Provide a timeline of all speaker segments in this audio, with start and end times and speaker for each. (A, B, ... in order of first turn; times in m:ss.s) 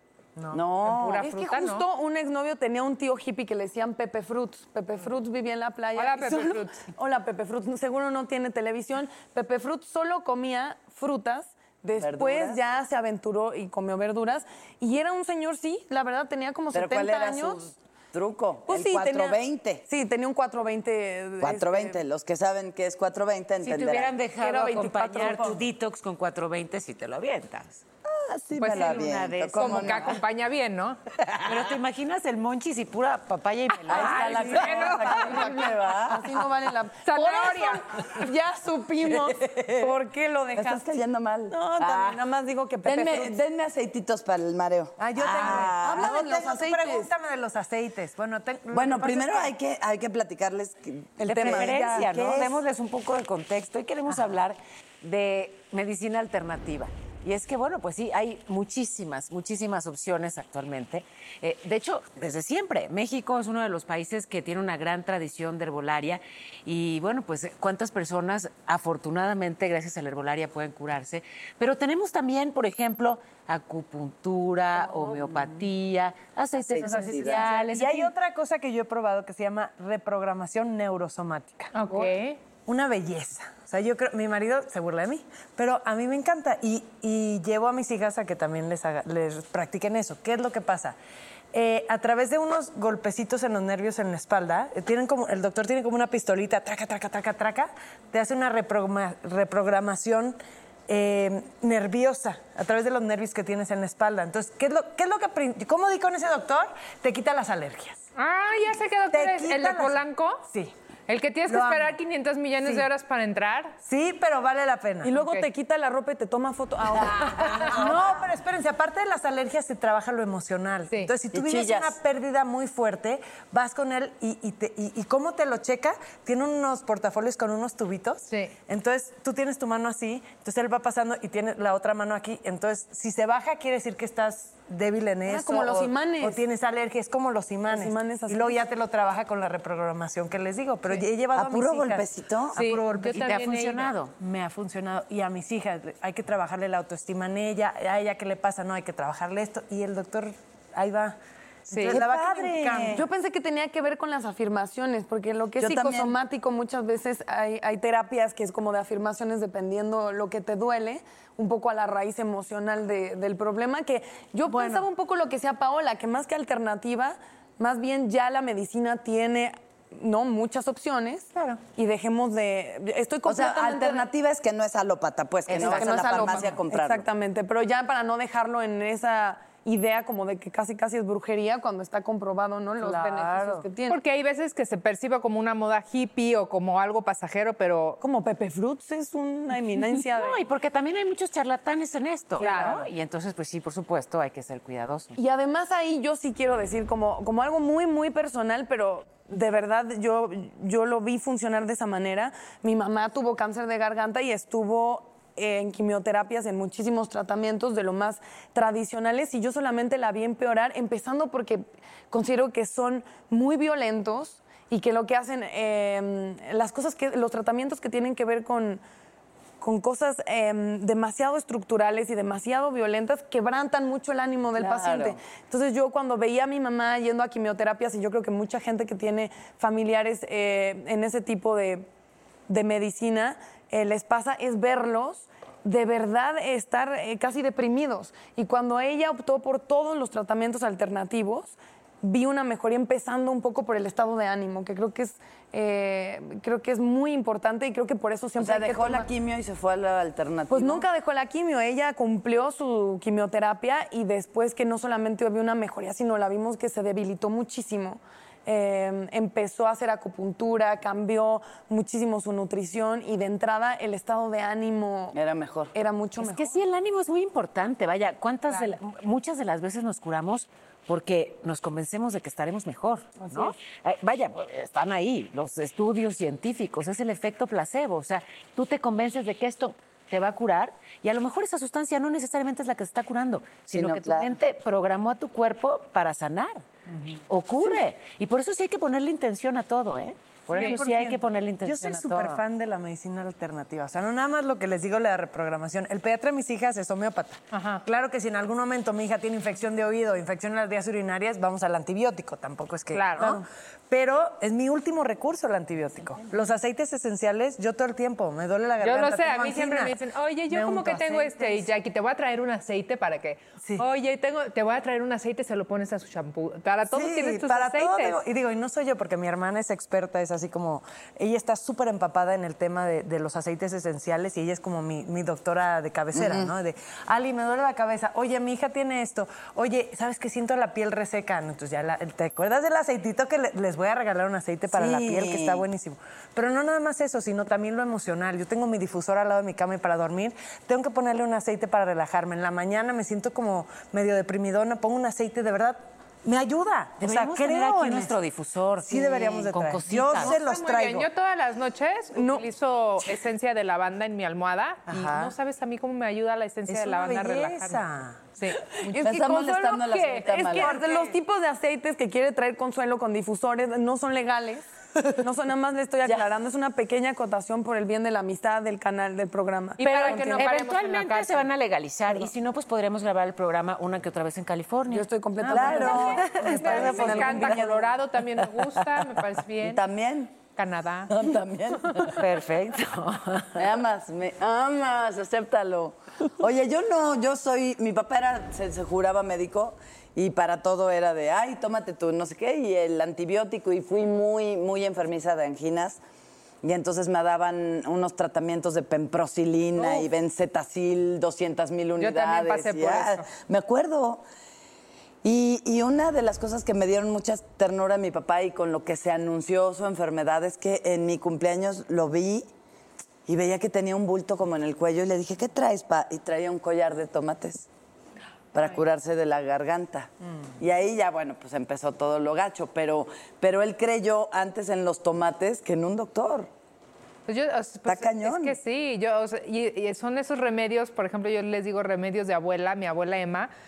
0:00.5-0:01.2 A
0:00.8-0:01.8 B
0:01.2-0:17.6 C
0:05.9-0:06.8 B
0:12.0-0:12.6 A
0:16.7-0:19.8 A
0:18.7-0:22.0 C
0:21.4-0:24.1 A
0:23.6-0:27.8 D
0:24.4-0:25.6 C
0:28.1-0:30.2 A
0:28.6-0:31.0 B
0:28.8-0:29.9 D
0:31.4-0:34.6 D
0:33.9-0:36.4 A
0:34.0-0:40.8 C
0:34.3-0:35.4 B
0:37.0-0:37.8 B
0:39.0-0:39.9 A
0:40.5-0:42.2 A
0:41.5-0:43.4 C
0:42.8-0:46.4 A
0:45.0-0:49.5 E
0:45.4-0:47.1 C
0:48.7-0:52.6 A
0:51.2-1:18.1 D
0:51.3-0:52.0 C
1:14.8-1:15.4 C
1:16.7-1:17.4 A
1:17.2-1:21.7 E
1:21.7-1:22.4 B
1:22.6-1:31.0 E
1:31.5-1:48.0 E
1:48.2-1:50.4 B
1:49.1-1:50.7 E
1:51.1-1:53.8 B
1:51.5-1:51.9 E
1:53.8-1:55.1 E
1:55.0-1:58.1 C
1:55.1-1:55.4 B
1:57.6-2:23.2 E
2:01.3-2:02.0 A
2:08.3-2:08.5 B
2:15.2-2:16.4 C
2:17.7-2:18.7 C
2:21.3-2:22.6 A
2:22.5-2:23.9 B
2:23.0-2:24.1 D
2:24.1-2:31.2 E
2:31.7-2:32.0 B
2:31.7-2:33.0 E
2:31.9-2:32.5 A
2:32.7-2:54.1 C
2:35.6-2:36.1 A
2:44.5-2:44.8 E
2:51.3-2:51.6 B
2:53.2-2:57.1 A
2:55.5-3:04.0 C
2:55.6-2:55.9 D
3:02.8-3:03.6 E
3:03.9-3:08.0 B
3:08.0-3:10.4 C
3:10.0-3:15.1 D
3:12.4-3:12.8 B
3:12.4-3:12.8 C
3:15.2-3:38.8 C
3:39.6-3:51.9 C
3:44.5-3:45.2 A
3:52.5-4:09.1 C
4:08.4-4:10.8 A
4:10.5-4:25.2 C
4:25.1-4:25.7 A
4:25.7-4:26.5 C
4:26.2-4:46.6 D
4:33.2-4:33.6 C
4:43.7-4:44.3 A
4:47.3-4:52.4 D
4:50.5-5:11.6 E
4:50.5-4:50.8 B
4:57.5-4:57.8 B
5:02.9-5:03.4 B
5:08.8-5:18.2 B
5:13.6-5:13.8 E
5:16.9-5:48.1 E
5:26.1-5:26.5 A
5:34.7-5:35.6 A
5:47.0-5:50.4 D
5:48.8-5:51.1 E
5:50.2-5:57.8 B
5:52.1-5:52.5 C
5:55.0-5:55.3 E
5:56.7-5:58.2 E
5:58.3-6:00.9 B
5:59.0-6:00.7 A
5:59.0-6:04.6 C
6:00.7-6:01.0 E
6:05.2-6:10.5 C
6:09.8-6:11.5 B
6:09.8-6:17.6 D
6:14.9-6:17.7 C
6:15.5-6:17.8 A
6:15.8-6:19.8 B
6:17.1-6:17.5 E
6:19.5-6:20.4 A
6:20.5-6:21.1 B
6:21.1-6:22.2 A
6:22.1-6:23.6 D
6:23.6-6:36.0 A
6:36.6-6:44.2 A
6:39.8-6:40.1 B
6:42.0-6:43.3 B
6:45.2-6:52.5 A
6:53.2-6:57.7 A
6:58.5-7:06.5 A
7:07.3-7:13.5 B
7:07.8-7:08.6 A